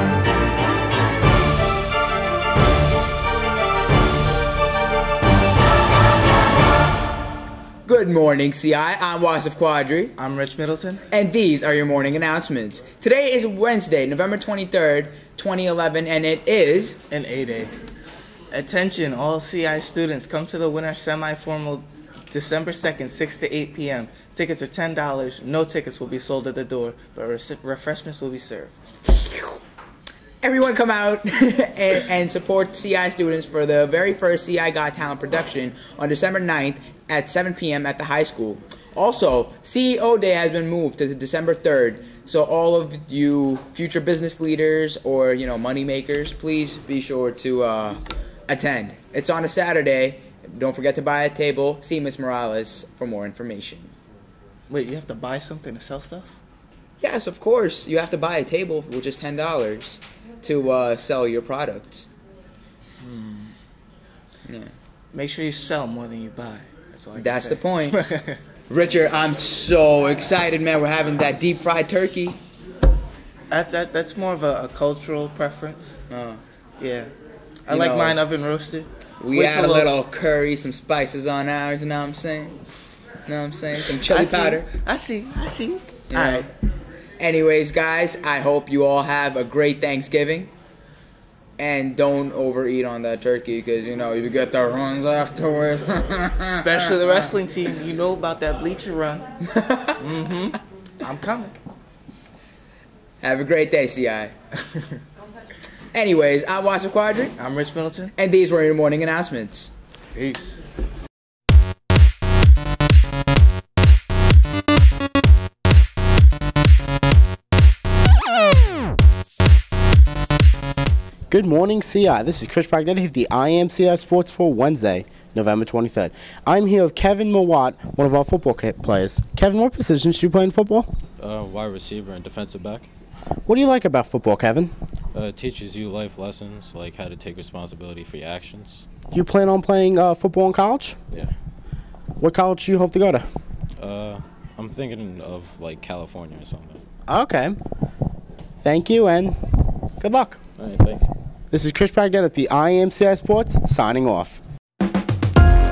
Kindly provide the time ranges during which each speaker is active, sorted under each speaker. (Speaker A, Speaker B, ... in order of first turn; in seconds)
Speaker A: 7.8-10.1, 11.1-17.0, 30.4-53.9, 57.0-62.1, 64.4-64.7, 67.1-68.0, 68.7-72.4, 76.1-76.4, 77.7-78.2, 79.2-82.6, 83.2-84.7, 86.1-86.5, 87.2-90.5, 91.6-96.8, 99.4-100.0, 103.2-104.3, 105.9-107.3, 108.2-109.7
Speaker B: 10.2-11.0, 17.1-17.7, 18.5-28.8, 54.7-56.3, 63.0-63.5, 65.1-68.4, 73.5-75.9, 76.8-77.1, 77.7-79.9, 84.0-86.5, 96.4-99.3, 100.0-101.5, 107.4-108.1, 110.1-110.6
Speaker C: 121.3-130.9, 133.4-134.7, 139.1-141.0, 142.2-143.3, 147.1-147.6, 148.6-150.4, 151.5-154.4
Speaker D: 131.2-132.9, 135.1-138.8, 143.8-146.8, 150.6-151.1